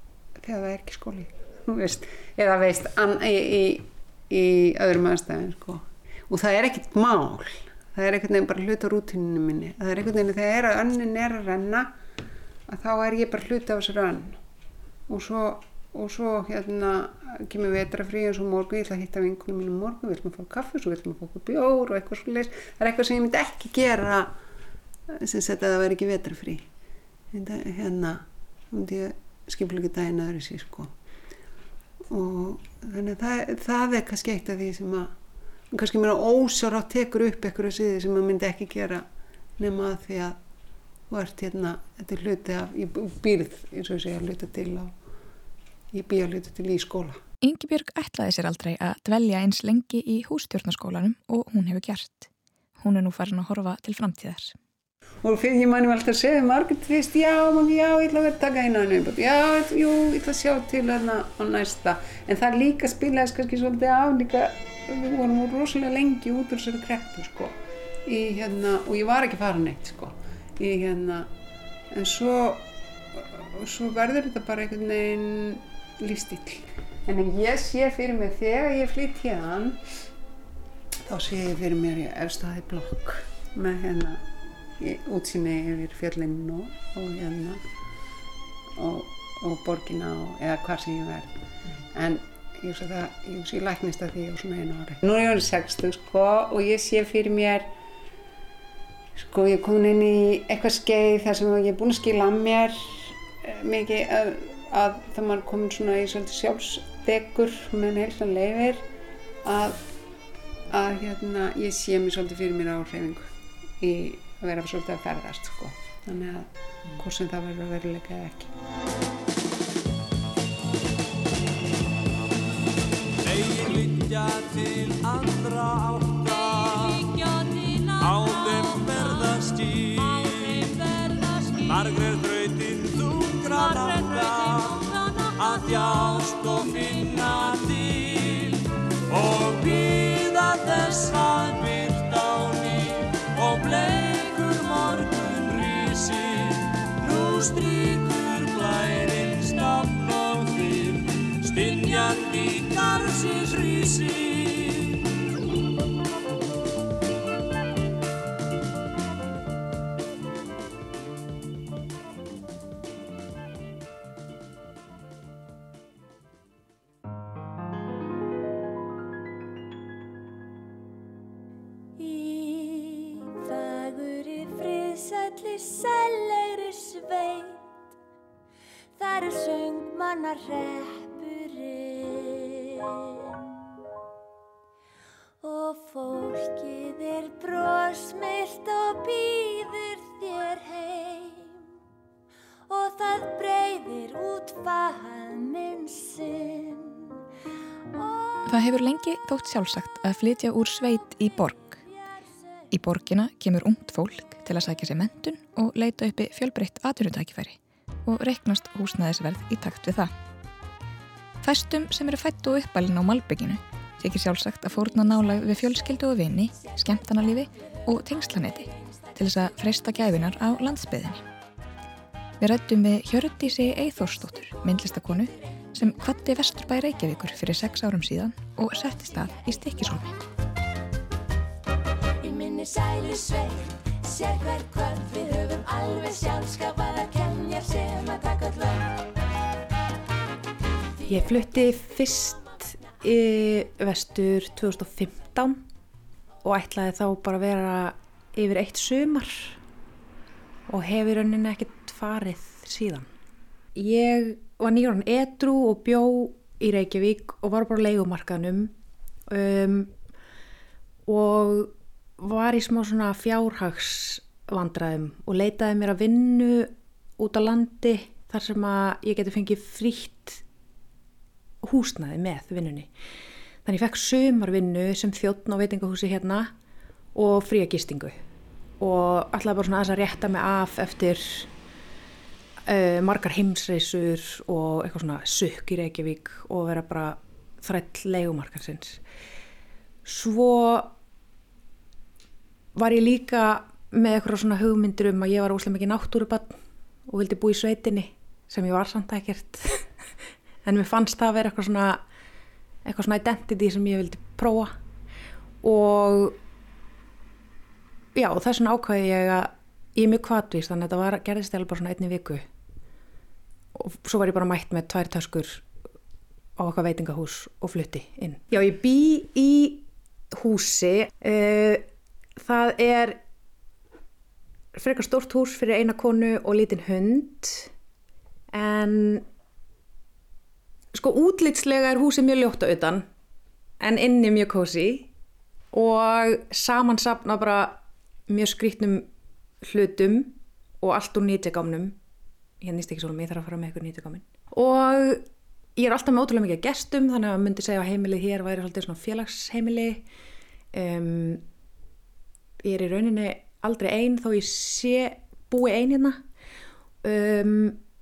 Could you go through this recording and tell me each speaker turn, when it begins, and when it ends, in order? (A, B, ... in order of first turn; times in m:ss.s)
0:00.4-0:11.9 A
0:12.7-0:14.4 A
0:15.1-0:24.4 A
0:25.1-0:26.6 A
0:27.3-0:30.9 A
0:32.1-0:35.1 A
0:35.7-0:39.1 A
0:39.6-0:40.4 A
0:41.1-0:44.9 A
0:45.9-0:47.2 A
0:47.4-0:54.6 B
0:55.2-1:07.6 A
1:08.1-1:11.3 A
1:11.9-1:19.8 A
1:21.1-1:24.2 A
1:24.8-1:27.6 A
1:28.8-1:31.3 A
1:31.9-1:37.7 A
1:39.2-1:48.8 A
1:49.4-1:49.8 A
1:50.7-1:53.3 A
1:53.8-1:58.5 A
2:03.2-2:07.1 C
2:07.0-2:08.8 D
2:08.0-2:10.7 C
2:10.1-2:12.0 D
2:11.6-2:35.1 C
2:13.6-2:15.4 D
2:52.0-2:57.7 D
2:59.0-3:03.6 D
3:05.4-3:11.6 D
3:12.7-3:17.2 D
3:18.0-3:18.7 D
3:18.5-3:21.8 B
3:21.8-3:22.3 D
3:22.7-3:30.1 B
3:31.4-3:41.2 B
3:42.4-3:50.0 B
3:52.2-3:59.0 D
4:01.1-4:05.6 E
4:06.4-4:09.6 E
4:10.7-4:13.1 E
4:13.8-4:18.7 E
4:19.3-4:19.9 E
4:21.1-4:30.4 E
4:31.6-4:32.9 E
4:33.6-4:36.5 E
4:37.2-4:38.2 E
4:38.8-4:41.5 E
4:42.7-4:49.0 E
4:50.0-4:50.9 E
4:52.8-4:56.6 E
4:57.1-4:59.8 E
5:00.6-5:02.0 E
5:02.8-5:04.7 E
5:05.6-5:06.4 E
5:08.2-5:12.4 E
5:13.8-5:15.6 E
5:16.6-5:21.8 E
5:22.4-5:23.2 E
5:24.8-5:27.7 E
5:28.5-5:29.3 E
5:30.9-5:33.0 E
5:33.8-5:35.1 E
5:35.7-5:39.1 E
5:39.6-5:42.0 E
5:42.6-5:45.2 E
5:45.8-5:50.0 E
5:50.7-5:51.4 E
5:52.6-5:56.2 E
5:57.0-5:57.8 E